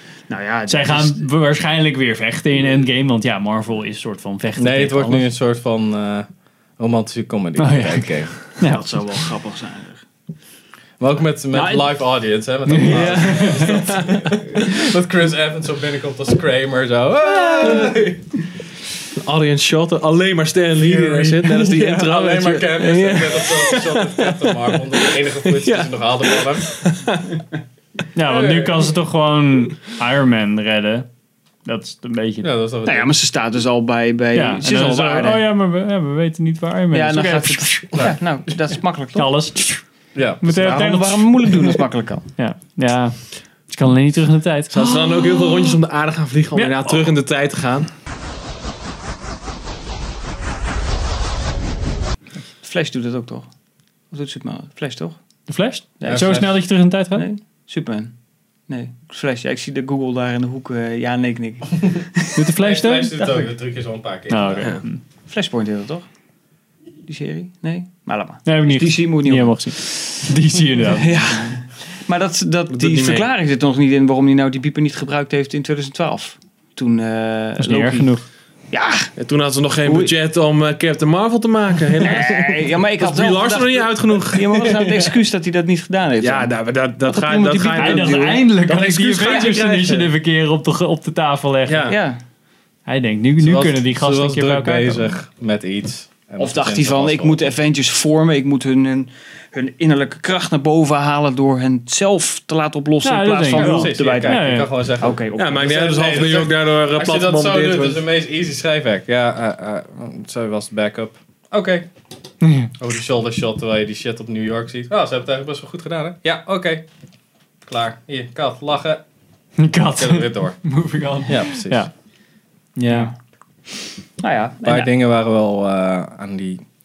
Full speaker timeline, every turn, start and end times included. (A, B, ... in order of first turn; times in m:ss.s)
0:00.3-0:01.2 A
0:00.7-0:05.3 B
0:04.6-0:08.5 C
0:07.6-0:08.8 B
0:08.6-0:10.0 A
0:11.0-0:18.4 C
0:11.5-0:11.9 A
0:12.7-0:13.7 B
0:12.8-0:14.2 D
0:17.4-0:17.8 A
0:17.6-0:17.9 D
0:19.2-0:27.3 D
0:20.7-0:26.9 C
0:28.1-0:31.1 B
0:28.3-0:28.7 C
0:31.6-0:32.5 B
0:32.4-0:33.2 C
0:32.8-0:35.5 A
0:34.3-0:38.1 B
0:36.9-0:39.3 A
0:39.1-0:39.8 B
0:40.1-0:40.8 C
0:40.4-0:41.8 B
0:40.5-0:42.3 A
0:42.4-0:44.9 B
0:44.7-0:47.9 D
0:44.9-0:45.7 A
0:46.5-0:47.1 B
0:52.6-0:53.5 A
0:54.1-0:55.2 A
0:55.5-0:57.2 B
0:56.0-0:58.1 A
0:56.0-0:56.6 C
0:58.7-1:02.3 A
1:02.3-1:03.2 B
1:02.6-1:04.8 C
1:04.3-1:05.0 B
1:05.2-1:06.0 A
1:07.0-1:10.2 A
1:08.4-1:11.5 B
1:10.8-1:18.2 A
1:12.7-1:13.3 D
1:17.6-1:18.2 B
1:18.7-1:19.1 A
1:19.2-1:24.6 D
1:19.8-1:20.1 A
1:22.0-1:28.6 A
1:26.2-1:30.1 D
1:27.7-1:31.9 B
1:29.2-1:29.6 A
1:31.7-1:32.0 D
1:31.9-1:32.2 A
1:32.8-1:35.1 B
1:33.4-1:37.5 C
1:36.4-1:46.3 A
1:43.0-1:44.7 B
1:43.5-1:51.9 C
1:45.4-1:48.0 D
1:52.4-1:52.7 B
1:52.8-1:56.8 C
1:57.6-1:59.0 C
1:59.6-2:01.9 B
1:59.9-2:01.9 C
2:02.8-2:03.1 B
2:02.9-2:03.1 A
2:04.2-2:04.9 A
2:04.6-2:06.7 C